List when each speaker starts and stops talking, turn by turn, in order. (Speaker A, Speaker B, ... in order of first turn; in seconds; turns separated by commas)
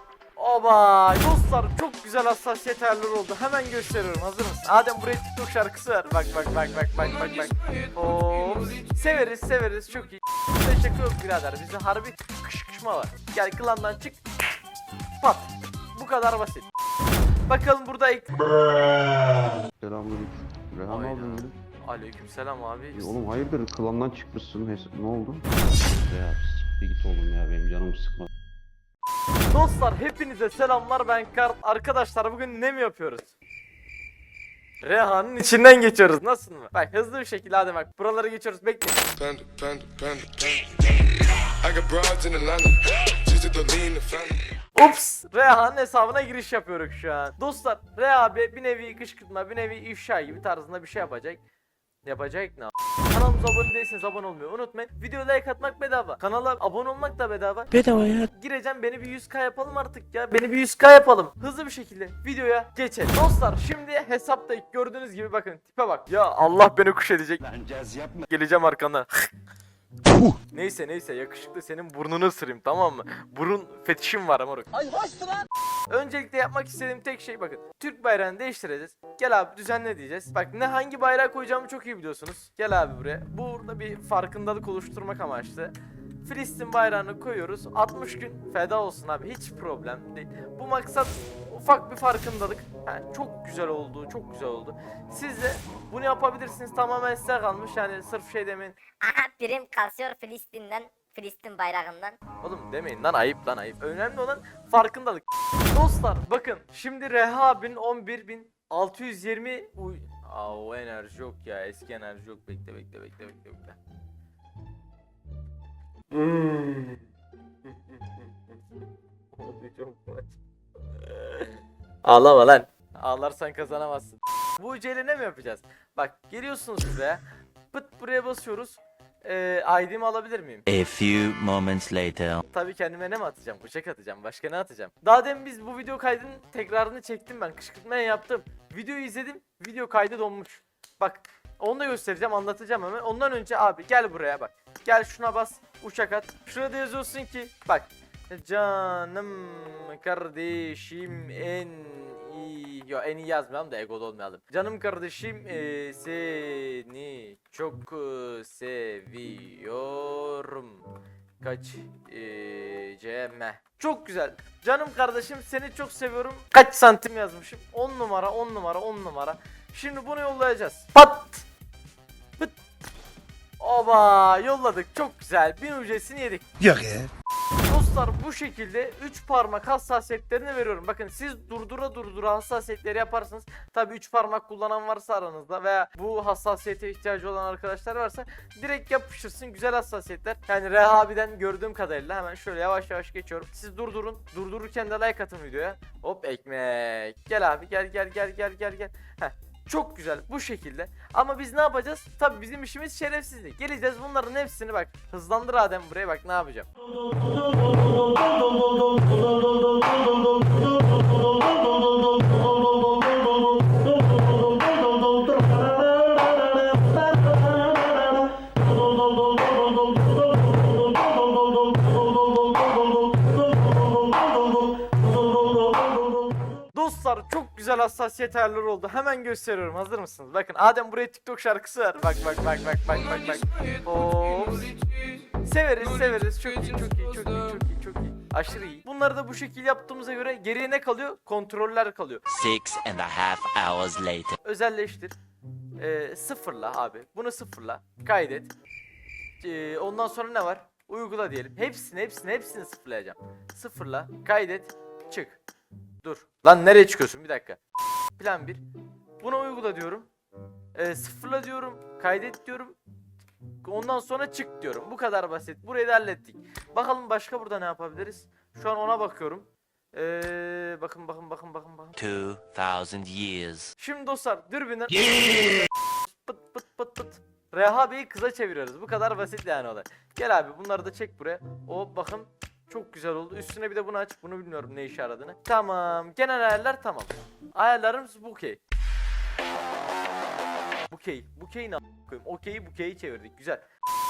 Speaker A: 0.3-14.2, Speaker A: 15.2-16.7, Speaker A: 17.5-18.4, Speaker B: 19.8-21.6, Speaker A: 20.9-23.1, Speaker B: 22.9-28.3, Speaker A: 29.5-33.3, Speaker A: 34.8-39.0, Speaker C: 39.1-44.4, Speaker A: 44.7-51.4, Speaker A: 52.0-67.4, Speaker D: 67.5-68.2, Speaker A: 68.2-69.1, Speaker A: 70.5-75.1, Speaker A: 75.9-85.7, Speaker A: 86.2-98.8, Speaker E: 99.0-102.2, Speaker A: 102.4-113.8, Speaker A: 116.2-116.5, Speaker D: 116.2-116.8, Speaker A: 119.4-120.2, Speaker A: 121.1-121.5, Speaker A: 122.0-130.6, Speaker F: 130.7-132.4, Speaker A: 132.5-160.8, Speaker A: 161.4-171.4, Speaker A: 173.6-176.4, Speaker D: 176.7-177.1, Speaker A: 177.7-206.7, Speaker D: 215.4-216.0, Speaker D: 216.8-218.1, Speaker D: 225.1-225.9, Speaker A: 226.7-234.7, Speaker A: 235.4-242.2, Speaker F: 242.3-244.4, Speaker A: 244.4-245.2, Speaker A: 245.8-248.5, Speaker A: 249.4-255.4, Speaker A: 256.0-257.6, Speaker A: 258.1-258.6, Speaker A: 259.2-260.1, Speaker A: 260.7-262.8, Speaker A: 263.6-271.9, Speaker F: 271.9-273.7, Speaker A: 273.8-275.5, Speaker A: 276.1-288.6, Speaker A: 290.9-293.6